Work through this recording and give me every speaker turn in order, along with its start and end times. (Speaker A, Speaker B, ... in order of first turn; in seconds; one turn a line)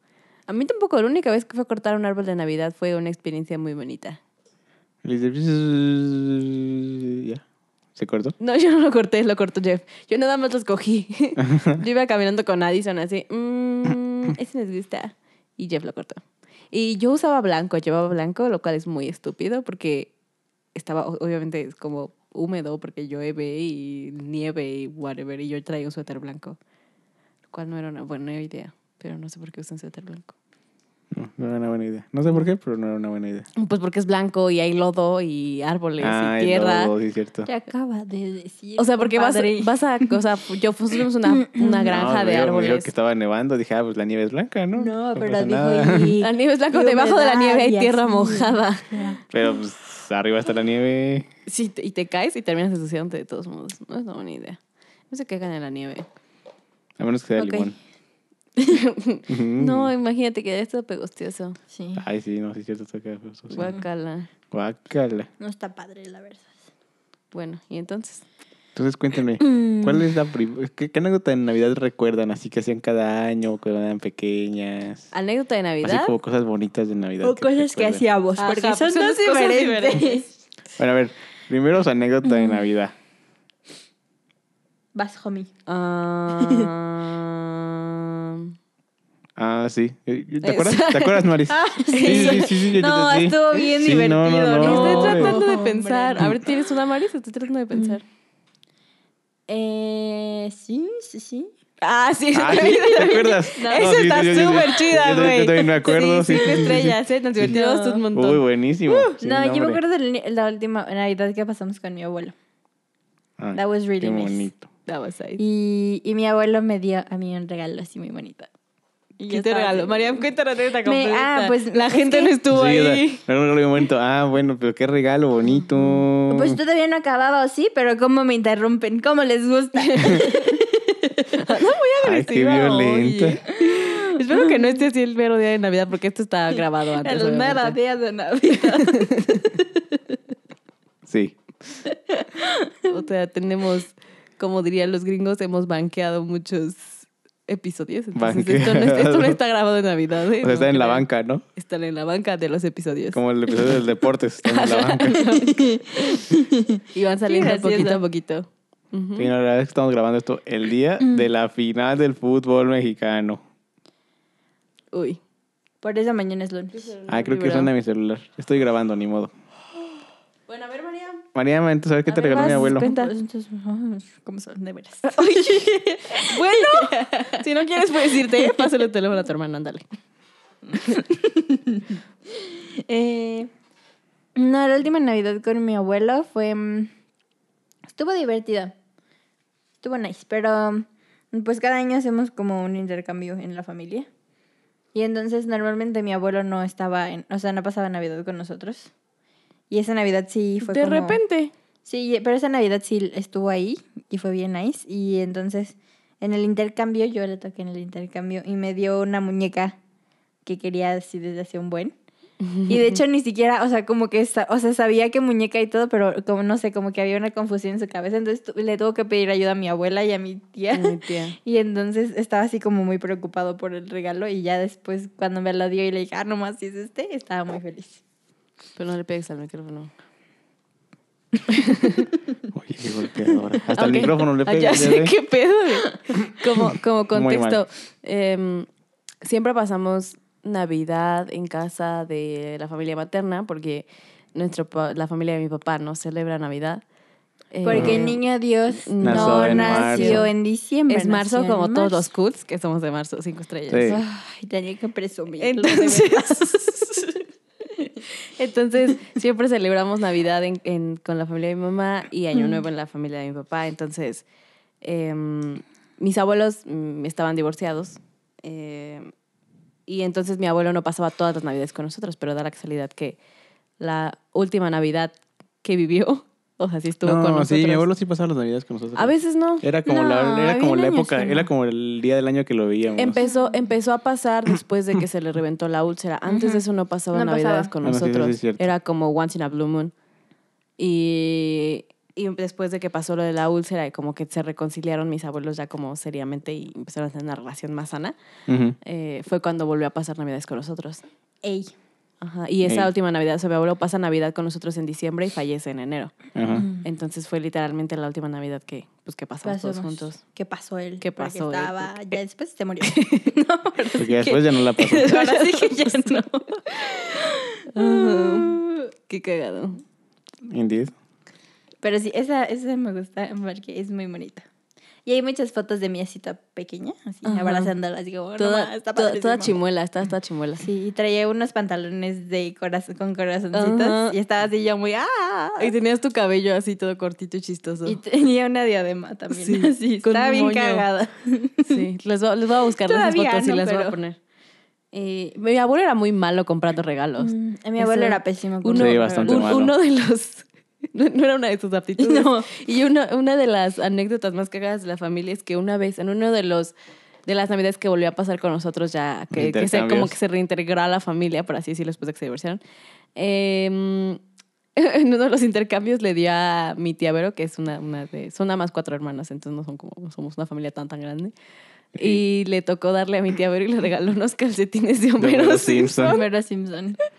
Speaker A: 0.5-4.2
Speaker B: 5.0-7.4
Speaker B: 8.0-8.3
Speaker A: 8.4-16.2
Speaker B: 11.4-11.8
Speaker A: 16.7-20.1
Speaker A: 20.8-26.6
Speaker A: 27.5-30.3
Speaker B: 31.1-33.5
Speaker A: 33.6-36.9
Speaker B: 36.0-37.5
Speaker C: 37.5-40.2
Speaker A: 38.8-42.9
Speaker C: 41.2-41.9
Speaker B: 41.9-46.2
Speaker C: 44.8-49.2
Speaker A: 46.2-49.1
Speaker B: 49.3-51.3
Speaker A: 51.5-54.6
Speaker A: 55.1-56.1
Speaker B: 57.0-57.8
Speaker A: 57.4-57.7
Speaker A: 58.6-61.6
Speaker B: 59.3-59.9
Speaker C: 61.7-62.0
Speaker B: 62.0-63.8
Speaker A: 63.5-64.3
Speaker B: 64.5-65.3
Speaker C: 65.4-66.5
Speaker A: 67.3-68.2
Speaker B: 68.8-75.1
Speaker C: 69.4-70.1
Speaker A: 75.1-76.2
Speaker B: 75.8-78.0
Speaker C: 77.2-80.3
Speaker A: 78.4-80.2
Speaker B: 80.8-83.0
Speaker C: 82.2-82.7
Speaker C: 85.0-85.5
Speaker A: 85.7-88.5
Speaker C: 86.4-86.7
Speaker B: 89.4-95.4
Speaker A: 90.4-91.3
Speaker C: 91.5-96.5
Speaker A: 91.9-92.7
Speaker A: 94.6-98.0
Speaker C: 97.7-98.0
Speaker C: 99.5-101.5
Speaker A: 101.8-108.4
Speaker B: 102.3-107.5
Speaker C: 103.5-104.6
Speaker C: 107.5-108.0
Speaker B: 108.1-109.8
Speaker C: 109.0-112.3
Speaker B: 113.4-114.7
Speaker C: 113.5-114.5
Speaker A: 114.9-115.4
Speaker C: 115.4-118.5
Speaker C: 119.2-120.2
Speaker A: 119.3-123.2
Speaker C: 120.8-122.4
Speaker B: 122.5-126.6
Speaker C: 126.3-131.5
Speaker A: 129.8-130.6
Speaker A: 131.4-137.8
Speaker B: 132.0-133.4
Speaker C: 133.6-134.8
Speaker C: 136.5-140.0
Speaker A: 138.6-139.5
Speaker B: 141.1-141.4
Speaker C: 141.9-142.9
Speaker A: 142.8-153.8
Speaker B: 148.2-149.4
Speaker B: 150.4-151.4
Speaker B: 153.1-155.3
Speaker A: 154.4-156.3
Speaker C: 155.2-158.0
Speaker A: 156.9-159.3
Speaker B: 159.2-163.4
Speaker C: 161.0-161.3
Speaker A: 164.9-165.2
Speaker C: 165.8-166.8
Speaker A: 166.7-167.7
Speaker B: 167.1-169.3
Speaker A: 170.5-171.2
Speaker B: 171.3-172.9
Speaker A: 172.1-173.1
Speaker C: 172.3-177.5
Speaker A: 175.1-179.8
Speaker C: 178.0-178.7
Speaker C: 180.7-183.5
Speaker C: 184.4-186.9
Speaker C: 187.9-188.7
Speaker C: 189.8-194.1
Speaker C: 194.9-198.9
Speaker C: 199.7-201.2
Speaker A: 200.6-201.5
Speaker C: 201.9-209.8
Speaker C: 210.4-211.9
Speaker A: 212.4-213.0
Speaker C: 212.7-228.0
Speaker A: 220.7-221.4
Speaker A: 228.8-229.9
Speaker A: 231.5-232.1
Speaker B: 232.5-235.1
Speaker A: 233.7-238.7
Speaker B: 237.1-237.6
Speaker A: 239.2-246.8
Speaker A: 247.5-248.2
Speaker C: 247.6-252.1
Speaker B: 247.7-248.1
Speaker A: 248.7-250.2
Speaker B: 249.0-250.3
Speaker A: 250.9-254.0
Speaker B: 253.7-254.0
Speaker C: 253.9-257.1
Speaker A: 255.4-257.2
Speaker A: 258.4-264.3
Speaker C: 262.4-262.6
Speaker A: 264.8-269.1
Speaker A: 269.9-273.2
Speaker A: 273.8-277.9
Speaker B: 277.0-283.2
Speaker A: 279.0-279.7
Speaker C: 279.9-281.5
Speaker A: 283.0-289.9
Speaker C: 283.2-283.6
Speaker C: 286.3-287.7
Speaker B: 287.8-288.7
Speaker A: 290.8-298.1
Speaker B: 298.5-298.8
Speaker A: 298.8-301.0
Speaker C: 301.4-301.7
Speaker A: 302.2-306.1
Speaker B: 306.4-306.7
Speaker C: 306.6-306.8
Speaker A: 306.8-310.2
Speaker C: 309.4-314.4
Speaker A: 311.0-312.2
Speaker A: 312.8-313.3
Speaker B: 314.0-315.1
Speaker A: 314.2-316.3
Speaker C: 314.9-318.9
Speaker A: 317.7-319.8
Speaker B: 320.5-320.9
Speaker C: 321.8-324.4
Speaker C: 325.1-329.6
Speaker A: 327.2-327.7
Speaker A: 328.4-330.7
Speaker C: 330.6-335.8
Speaker A: 333.5-334.2
Speaker A: 335.6-338.0
Speaker C: 337.9-341.9
Speaker A: 339.3-340.9
Speaker A: 341.7-344.2
Speaker C: 342.8-344.0
Speaker A: 344.9-356.7
Speaker C: 347.2-349.5
Speaker B: 348.8-349.7
Speaker C: 352.0-352.5
Speaker A: 357.3-362.6
Speaker B: 359.3-360.2
Speaker A: 363.2-364.2
Speaker A: 364.8-371.3
Speaker B: 371.9-372.2
Speaker A: 371.9-376.2
Speaker B: 375.2-376.2
Speaker C: 376.0-377.0